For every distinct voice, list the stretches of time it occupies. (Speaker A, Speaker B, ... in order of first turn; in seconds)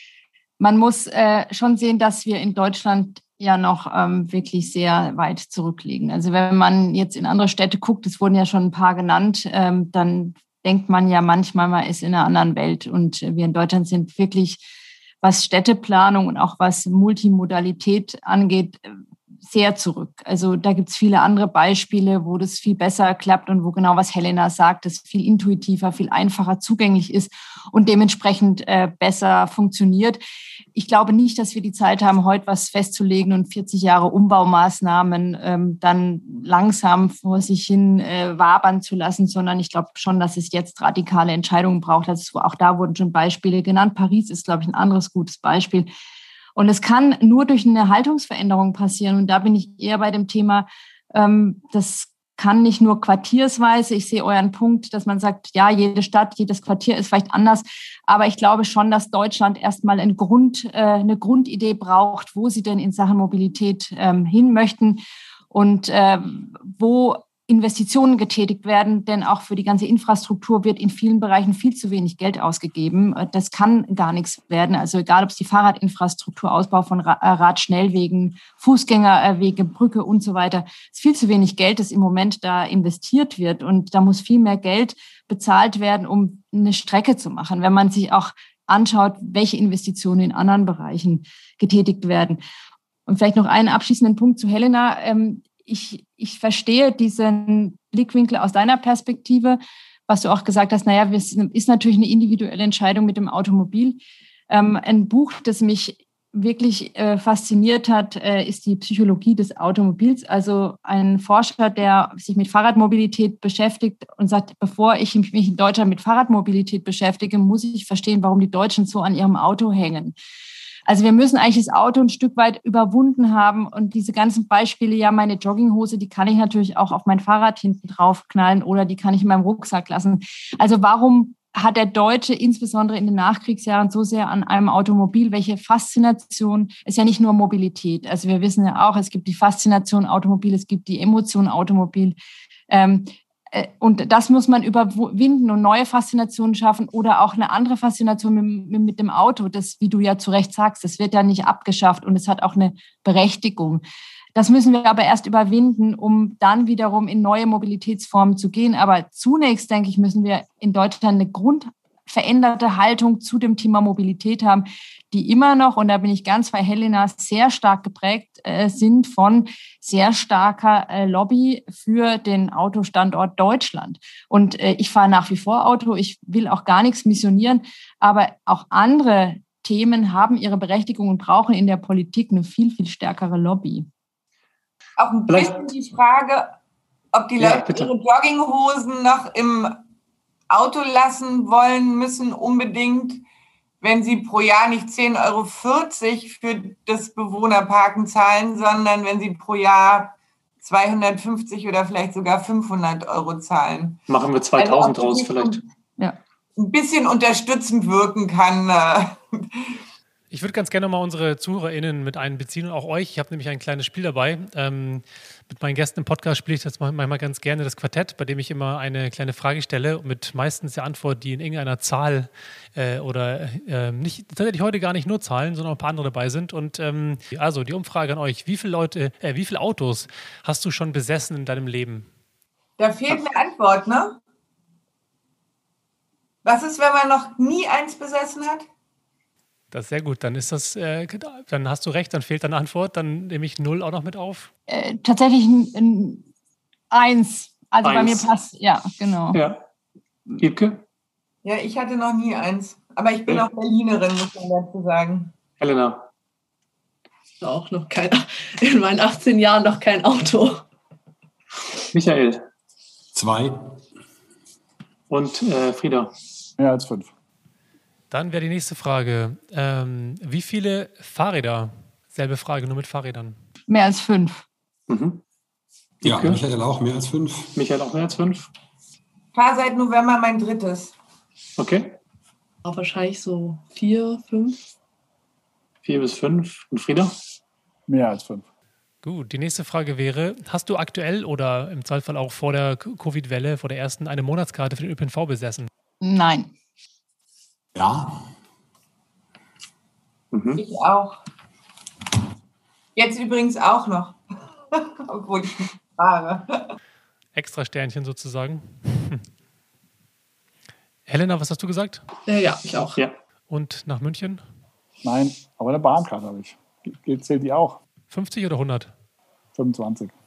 Speaker A: 0.6-14.7, 15.2-30.2, 30.7-45.9, 46.5-92.4, 93.1-120.1, 120.9-142.2, 142.7-153.8, 154.3-183.9, 244.7-246.2, 246.9-249.4, 273.7-274.4, 296.0-296.5
Speaker B: 185.0-186.5, 187.1-189.8, 190.5-193.2, 193.8-204.0, 204.6-205.6, 206.6-209.8, 232.8-234.2, 236.4-238.7, 251.4-255.3, 279.3-280.9, 300.6-301.2, 302.9-304.2, 304.7-306.7
Speaker C: 185.3-185.7, 187.4-187.9, 204.1-205.6, 247.8-248.3, 249.3-249.6, 250.4-250.8, 255.6-256.0, 261.9-262.4, 265.1-266.1, 274.9-275.2, 276.0-276.4, 277.5-278.5, 281.6-282.0, 285.8-287.1, 300.3-300.6
Speaker D: 210.3-232.1, 239.7-244.5, 268.1-273.4, 289.0-295.7, 307.3-309.2, 311.1-312.0, 313.5-314.4, 318.1-318.9
Speaker E: 257.4-260.6, 282.6-284.6, 312.3-313.0
Speaker F: 263.1-263.6, 276.0-277.5, 297.7-298.2
Speaker G: 266.6-267.1, 287.9-288.4, 315.0-317.8, 319.6-320.1